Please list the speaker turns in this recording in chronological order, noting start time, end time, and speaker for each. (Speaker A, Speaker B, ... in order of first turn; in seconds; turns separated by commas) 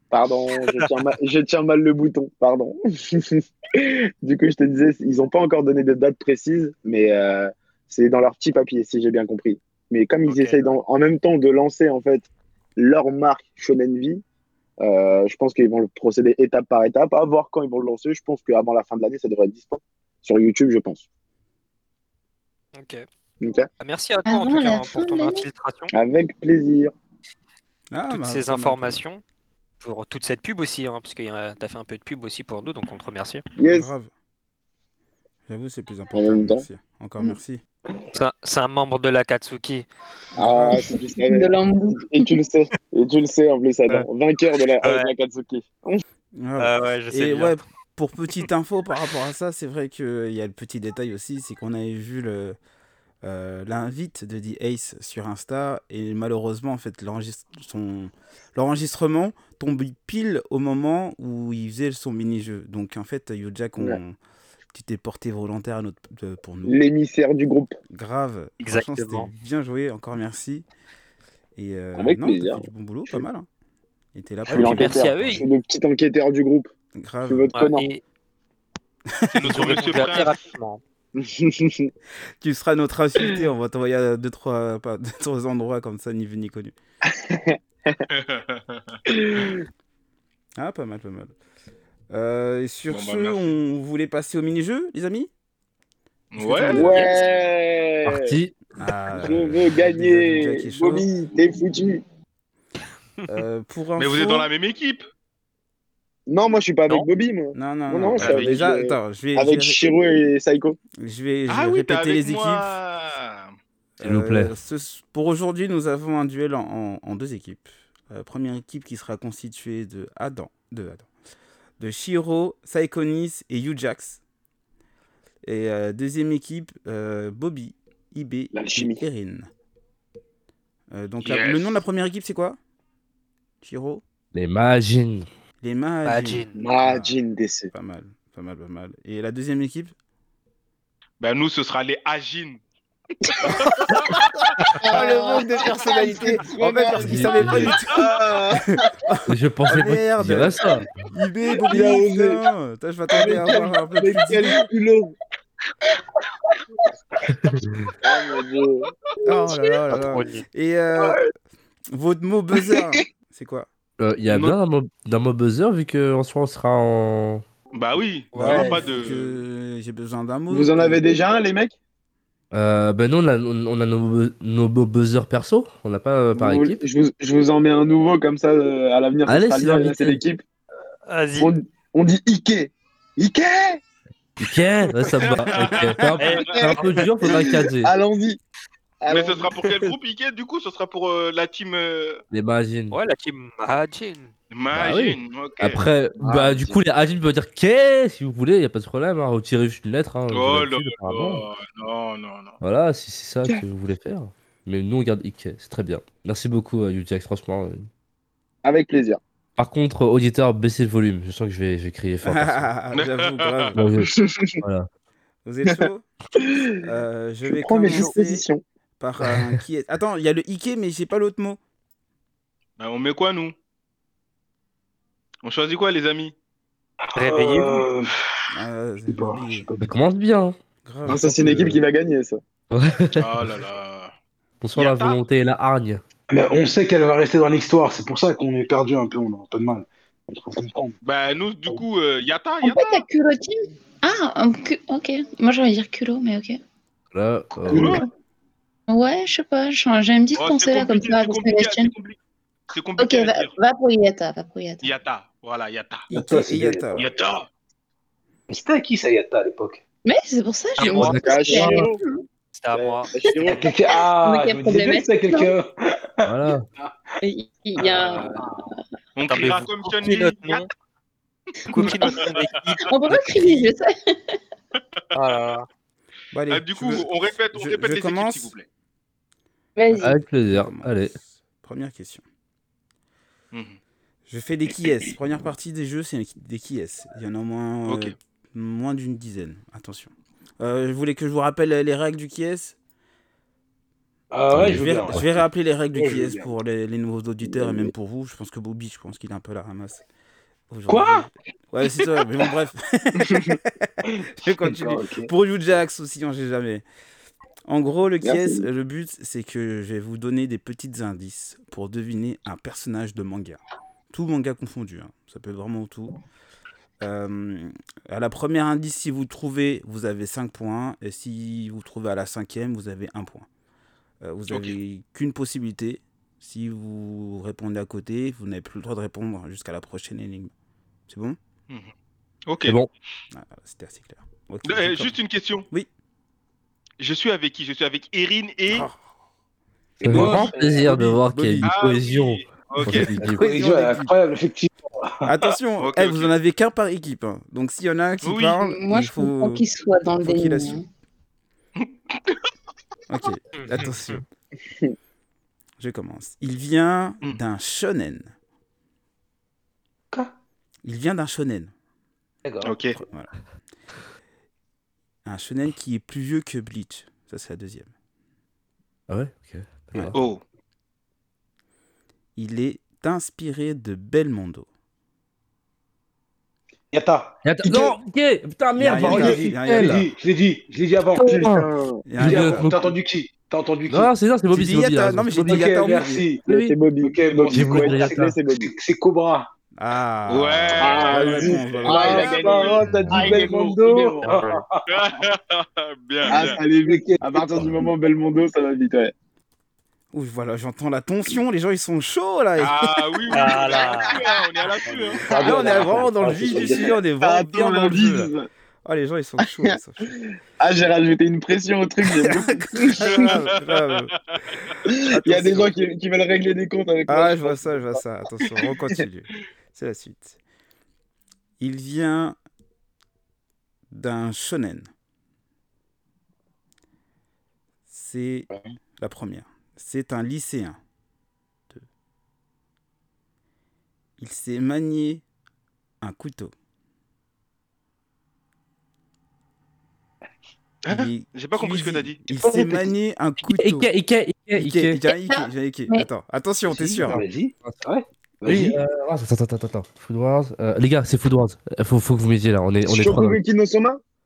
Speaker A: 0.1-14.2, Speaker B: 10.3-10.6, Speaker A: 14.8-21.0, Speaker B: 22.7-23.0, Speaker A: 23.4-23.7, Speaker B: 23.8-25.9, Speaker C: 24.3-25.4, Speaker A: 25.9-26.9, Speaker D: 27.9-29.0, Speaker B: 28.1-29.2, Speaker B: 29.8-33.4, Speaker A: 33.6-33.9, Speaker D: 33.7-34.1, Speaker D: 35.5-37.6, Speaker A: 36.1-36.7, Speaker B: 38.1-39.9, Speaker D: 40.4-40.8, Speaker A: 40.4-46.0, Speaker C: 40.7-42.3, Speaker B: 44.8-45.1, Speaker D: 46.4-52.6, Speaker B: 46.6-47.5, Speaker D: 53.2-64.2, Speaker D: 64.7-66.8, Speaker A: 66.6-67.8, Speaker D: 67.9-70.6, Speaker B: 68.6-69.3, Speaker D: 71.5-73.5, Speaker A: 72.0-73.2, Speaker D: 74.1-75.0, Speaker B: 74.5-75.5, Speaker A: 74.5-76.7, Speaker D: 76.9-77.5, Speaker A: 77.3-77.8, Speaker B: 77.5-78.0, Speaker E: 79.3-80.4, Speaker B: 79.4-80.8, Speaker A: 81.2-81.9, Speaker D: 82.4-86.7, Speaker A: 87.1-88.0, Speaker E: 88.1-89.0, Speaker A: 89.1-89.6, Speaker D: 90.6-91.3, Speaker D: 92.1-95.3, Speaker E: 92.9-93.5, Speaker E: 96.3-96.8, Speaker D: 96.4-97.1, Speaker A: 96.7-98.4, Speaker B: 96.8-97.1, Speaker F: 98.0-98.6, Speaker D: 98.8-101.1, Speaker A: 99.2-102.0, Speaker D: 103.3-104.5, Speaker E: 104.0-105.0, Speaker A: 106.3-110.8, Speaker D: 107.5-109.8, Speaker E: 108.2-108.6, Speaker D: 111.0-112.8, Speaker E: 111.5-113.5, Speaker D: 114.0-121.1, Speaker F: 114.0-114.5, Speaker D: 121.8-124.2, Speaker D: 125.4-129.5, Speaker A: 128.5-129.0, Speaker D: 130.9-132.6, Speaker E: 131.2-131.8, Speaker D: 133.6-134.0, Speaker F: 134.3-135.2, Speaker D: 135.6-137.1, Speaker B: 136.1-136.6, Speaker A: 136.6-137.7, Speaker D: 137.7-139.9, Speaker E: 141.2-142.6, Speaker E: 143.4-144.8, Speaker A: 144.8-148.8, Speaker D: 144.8-148.1, Speaker F: 147.0-147.7, Speaker D: 148.8-154.6, Speaker F: 149.3-151.0, Speaker A: 151.6-152.4, Speaker A: 153.1-155.1, Speaker F: 157.3-157.9, Speaker A: 158.0-158.9, Speaker D: 159.2-161.2, Speaker B: 159.9-160.4, Speaker D: 161.9-163.7, Speaker F: 164.0-167.4, Speaker E: 167.7-169.3, Speaker B: 168.3-168.8, Speaker D: 168.4-171.1, Speaker A: 170.5-171.7, Speaker F: 172.5-176.8, Speaker A: 176.3-180.4, Speaker F: 179.3-180.2, Speaker B: 181.1-181.5, Speaker A: 181.4-183.8, Speaker F: 184.4-187.9, Speaker E: 185.1-186.7, Speaker B: 186.2-187.1, Speaker A: 186.5-188.4, Speaker A: 189.0-189.6, Speaker E: 189.1-192.2, Speaker F: 192.3-193.0, Speaker B: 192.9-194.3, Speaker E: 194.5-195.8, Speaker F: 194.7-201.4, Speaker A: 196.2-196.8, Speaker E: 200.3-202.6, Speaker F: 202.6-207.9, Speaker A: 208.6-209.2, Speaker F: 209.6-212.7, Speaker D: 212.2-213.8, Speaker E: 212.9-213.9, Speaker F: 213.8-214.1, Speaker A: 214.0-214.6, Speaker F: 214.6-214.9, Speaker D: 215.4-216.0, Speaker A: 216.4-216.7, Speaker D: 216.8-218.4, Speaker A: 217.4-218.6, Speaker D: 219.0-221.6, Speaker F: 219.2-219.6, Speaker E: 222.8-223.5, Speaker E: 225.4-226.3, Speaker G: 227.1-228.1, Speaker B: 227.2-227.8, Speaker D: 228.5-229.7, Speaker G: 229.1-229.9, Speaker F: 229.8-230.6, Speaker D: 230.8-231.8, Speaker A: 231.1-232.4, Speaker F: 231.1-231.8, Speaker F: 232.7-233.5, Speaker E: 233.1-234.1, Speaker F: 234.6-236.0, Speaker E: 234.7-235.2, Speaker G: 236.3-241.0, Speaker E: 241.0-243.0, Speaker C: 242.6-246.6, Speaker F: 247.1-248.0, Speaker E: 247.7-248.0, Speaker G: 247.7-248.1, Speaker C: 248.9-251.9, Speaker E: 250.3-252.2, Speaker E: 252.7-253.5, Speaker C: 253.0-254.9, Speaker E: 254.8-256.1, Speaker D: 256.1-257.1, Speaker G: 256.1-257.2, Speaker E: 256.9-257.4, Speaker G: 258.5-259.8, Speaker C: 260.0-262.2, Speaker B: 260.8-261.1, Speaker F: 260.8-261.9, Speaker A: 260.9-262.0, Speaker B: 262.5-263.7, Speaker A: 262.7-263.6, Speaker G: 263.4-267.0, Speaker C: 263.9-265.6, Speaker F: 266.2-266.7, Speaker C: 267.2-268.8, Speaker G: 267.8-268.7, Speaker E: 269.1-270.6, Speaker B: 269.3-270.7, Speaker B: 271.7-272.9, Speaker E: 271.7-272.3, Speaker C: 271.8-272.2, Speaker C: 272.8-274.4, Speaker B: 275.1-275.6, Speaker D: 276.3-278.5, Speaker E: 276.5-278.6, Speaker C: 279.8-280.2, Speaker F: 279.9-281.1, Speaker D: 280.5-282.2, Speaker E: 283.5-283.8, Speaker D: 284.3-292.8, Speaker E: 287.9-288.1, Speaker G: 294.3-295.3, Speaker F: 294.5-295.3, Speaker D: 294.5-300.0, Speaker G: 295.9-296.5, Speaker A: 297.4-297.9, Speaker D: 300.7-306.8, Speaker G: 300.9-301.3, Speaker G: 303.3-305.3, Speaker D: 307.6-316.2, Speaker A: 308.2-308.7, Speaker D: 317.0-323.5, Speaker D: 324.2-330.5, Speaker E: 324.5-324.8, Speaker D: 331.1-331.4, Speaker E: 332.5-332.8, Speaker F: 332.6-332.9, Speaker D: 333.3-335.1, Speaker E: 334.6-335.7, Speaker E: 337.0-338.9, Speaker D: 338.7-338.9, Speaker G: 340.0-340.6, Speaker F: 340.0-343.4, Speaker D: 340.1-341.7, Speaker A: 340.5-340.8, Speaker E: 341.6-343.1, Speaker D: 342.8-344.1, Speaker G: 343.3-345.2, Speaker D: 345.2-349.6, Speaker E: 345.8-346.3, Speaker E: 348.2-348.6, Speaker C: 348.6-350.8, Speaker D: 350.2-350.8, Speaker D: 353.1-354.2, Speaker B: 353.6-354.2, Speaker D: 355.8-358.3, Speaker D: 360.8-361.7, Speaker G: 362.4-362.8, Speaker E: 362.6-363.0, Speaker D: 363.0-363.3, Speaker D: 365.2-367.9, Speaker F: 369.1-370.2, Speaker E: 370.1-370.4, Speaker D: 372.4-374.7, Speaker G: 376.9-377.8, Speaker F: 377.4-380.1, Speaker D: 377.7-377.9, Speaker D: 378.8-379.9, Speaker G: 378.8-381.5, Speaker F: 381.1-382.9, Speaker A: 381.2-382.0, Speaker D: 382.1-382.7, Speaker G: 382.2-384.1, Speaker F: 383.9-386.0, Speaker D: 384.5-386.2, Speaker G: 385.4-386.5, Speaker A: 386.5-388.7, Speaker F: 386.5-386.8, Speaker G: 387.0-389.5, Speaker F: 387.5-388.4, Speaker D: 389.8-392.4, Speaker E: 390.3-392.9, Speaker A: 390.8-394.2, Speaker G: 391.8-395.0, Speaker B: 394.2-394.6, Speaker E: 394.9-396.6, Speaker G: 396.2-397.9, Speaker A: 396.3-399.1, Speaker D: 400.1-403.4, Speaker E: 402.6-405.3, Speaker B: 403.3-404.1, Speaker A: 404.1-404.4, Speaker G: 404.9-407.0, Speaker A: 405.2-408.5, Speaker D: 405.4-408.3, Speaker D: 408.8-410.1, Speaker A: 409.4-409.8, Speaker A: 410.6-413.2, Speaker D: 412.1-414.1, Speaker E: 413.0-413.9, Speaker A: 414.9-418.0, Speaker D: 415.1-415.7, Speaker D: 417.1-420.4, Speaker D: 421.6-422.4, Speaker D: 423.9-424.9, Speaker D: 427.9-430.8, Speaker D: 434.2-435.2, Speaker D: 436.0-436.5, Speaker E: 440.9-442.3, Speaker D: 440.9-443.9, Speaker F: 442.5-442.8, Speaker F: 443.4-445.0, Speaker D: 444.5-447.2, Speaker C: 445.1-446.1, Speaker G: 446.7-448.8, Speaker F: 447.1-447.8, Speaker F: 448.4-453.4, Speaker A: 452.8-454.0